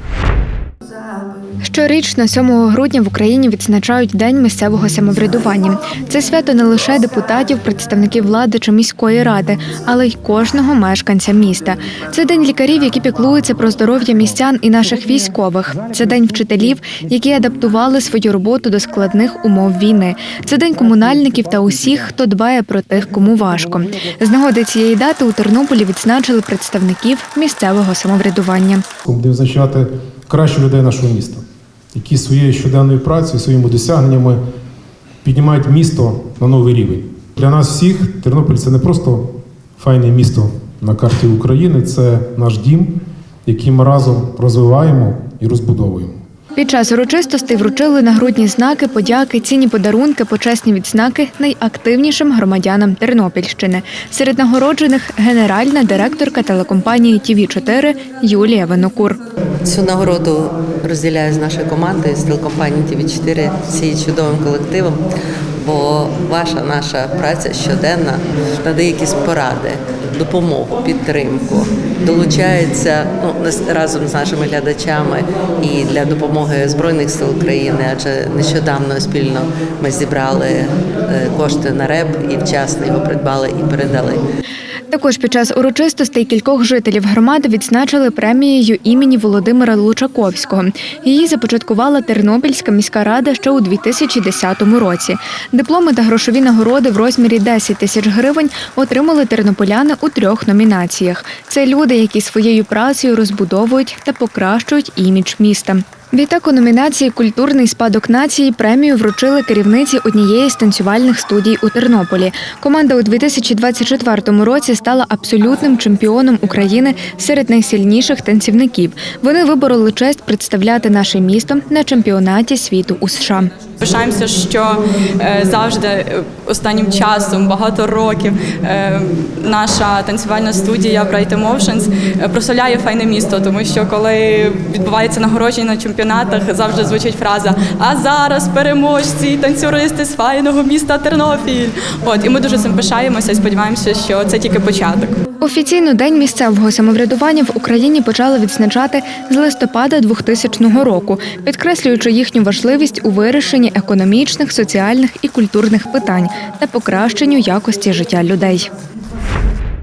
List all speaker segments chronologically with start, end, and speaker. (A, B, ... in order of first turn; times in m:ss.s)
0:01.6-0:28.8 A
0:29.1-0:31.1 B
0:32.0-0:34.4 B
0:35.2-0:36.8 B
0:37.4-0:39.1 B
0:39.8-0:40.3 B
0:40.8-0:42.8 B
0:43.4-0:46.1 B
0:46.6-0:59.2 A
0:59.6-1:24.2 C
1:24.9-2:03.5 A
2:03.8-2:25.2 D
2:25.4-2:38.7 A